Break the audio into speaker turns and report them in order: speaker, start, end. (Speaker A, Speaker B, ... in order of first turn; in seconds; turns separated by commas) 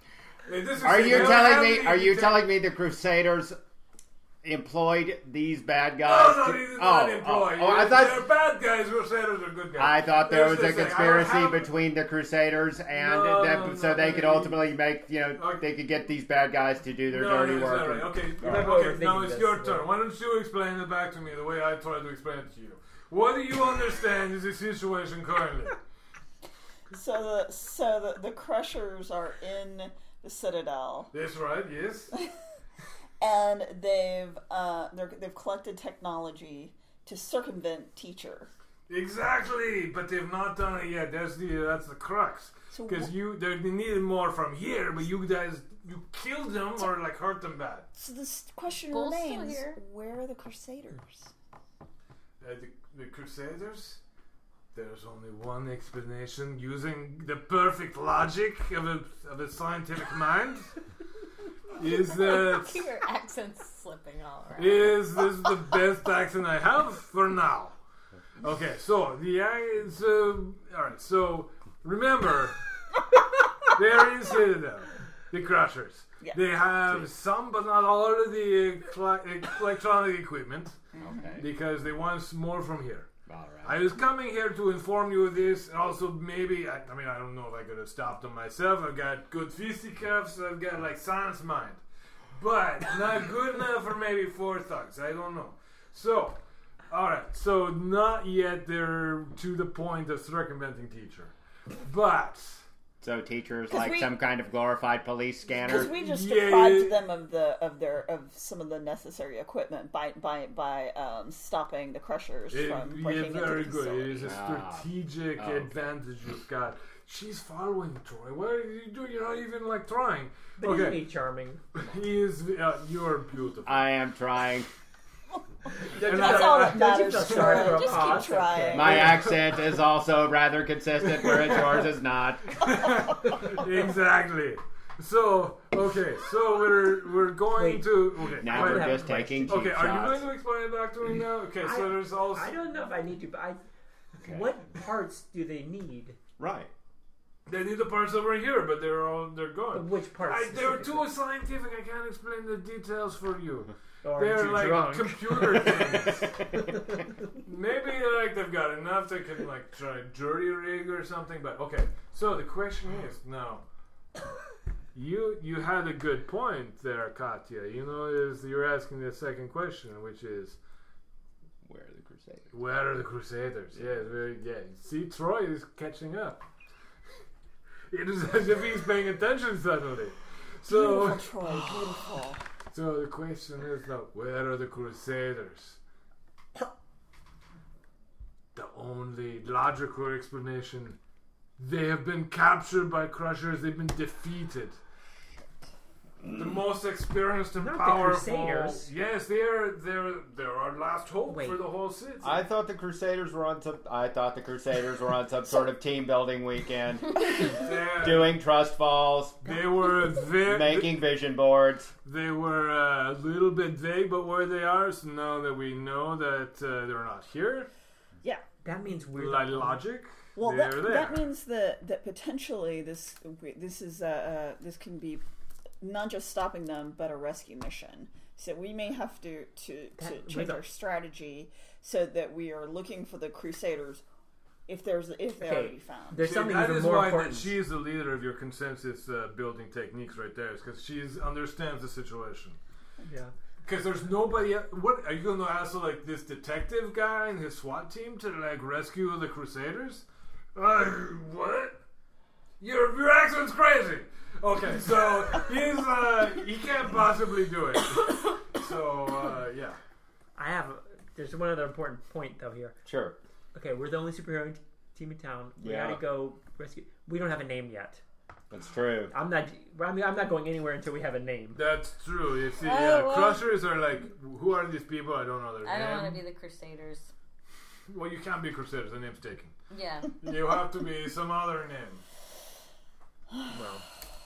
Speaker A: 0.4-2.5, Speaker B: 0.8-3.6, Speaker B: 4.4-8.3, Speaker A: 6.0-11.7, Speaker B: 9.8-18.8, Speaker A: 12.9-14.6, Speaker A: 15.3-15.6, Speaker A: 17.1-25.8, Speaker C: 18.4-19.9, Speaker D: 26.9-31.1, Speaker A: 31.1-32.1, Speaker D: 33.2-38.5, Speaker A: 38.9-47.9, Speaker D: 42.7-43.1, Speaker D: 48.0-51.3, Speaker E: 48.7-49.8, Speaker A: 52.4-54.0, Speaker A: 54.7-60.7, Speaker A: 61.7-62.9, Speaker E: 62.1-65.1, Speaker A: 64.6-67.8, Speaker A: 68.4-72.6, Speaker A: 73.7-80.8, Speaker D: 81.0-81.2, Speaker B: 81.0-81.5, Speaker A: 81.4-83.1, Speaker B: 83.3-83.8, Speaker A: 83.6-91.8, Speaker A: 92.3-96.4, Speaker A: 96.9-102.6, Speaker B: 103.0-106.0, Speaker D: 105.6-114.3, Speaker A: 105.8-107.0, Speaker A: 112.5-121.0, Speaker B: 114.2-115.7, Speaker C: 120.6-121.6, Speaker A: 121.7-123.9, Speaker B: 123.6-124.7, Speaker D: 125.9-129.2, Speaker C: 125.9-129.0, Speaker A: 126.0-129.6, Speaker B: 128.7-132.8, Speaker A: 131.0-131.8, Speaker A: 132.5-142.5, Speaker C: 137.5-139.7, Speaker B: 138.4-140.3, Speaker C: 141.6-143.6, Speaker B: 144.2-144.5, Speaker C: 144.2-146.2, Speaker B: 146.4-146.7, Speaker A: 147.4-156.4, Speaker C: 149.7-151.1, Speaker C: 154.0-157.1, Speaker A: 157.4-163.6, Speaker A: 164.9-170.6, Speaker B: 171.6-172.5, Speaker A: 172.5-176.4, Speaker A: 177.9-181.7, Speaker D: 180.7-182.4, Speaker A: 182.7-185.8, Speaker A: 188.5-191.0, Speaker A: 191.6-194.8, Speaker A: 196.3-202.4, Speaker C: 197.6-198.9, Speaker C: 201.3-201.6, Speaker B: 202.2-209.5, Speaker A: 207.4-208.3, Speaker A: 209.4-210.9, Speaker B: 210.4-211.9, Speaker A: 212.0-217.7, Speaker C: 218.6-219.8, Speaker A: 219.1-221.2, Speaker D: 220.3-225.2, Speaker D: 225.8-234.0, Speaker C: 230.0-230.6, Speaker D: 234.7-236.3, Speaker C: 235.4-237.6, Speaker A: 236.2-242.6, Speaker C: 243.0-243.3, Speaker A: 243.6-251.8, Speaker A: 252.6-259.8, Speaker C: 260.4-262.8, Speaker B: 262.8-263.2, Speaker C: 263.5-268.0, Speaker B: 265.6-266.0, Speaker B: 268.5-269.1, Speaker C: 269.1-271.6, Speaker A: 271.5-276.2, Speaker E: 272.6-273.4, Speaker E: 275.6-277.1, Speaker A: 277.9-279.5, Speaker E: 279.7-280.1, Speaker A: 280.2-282.0, Speaker C: 283.5-283.8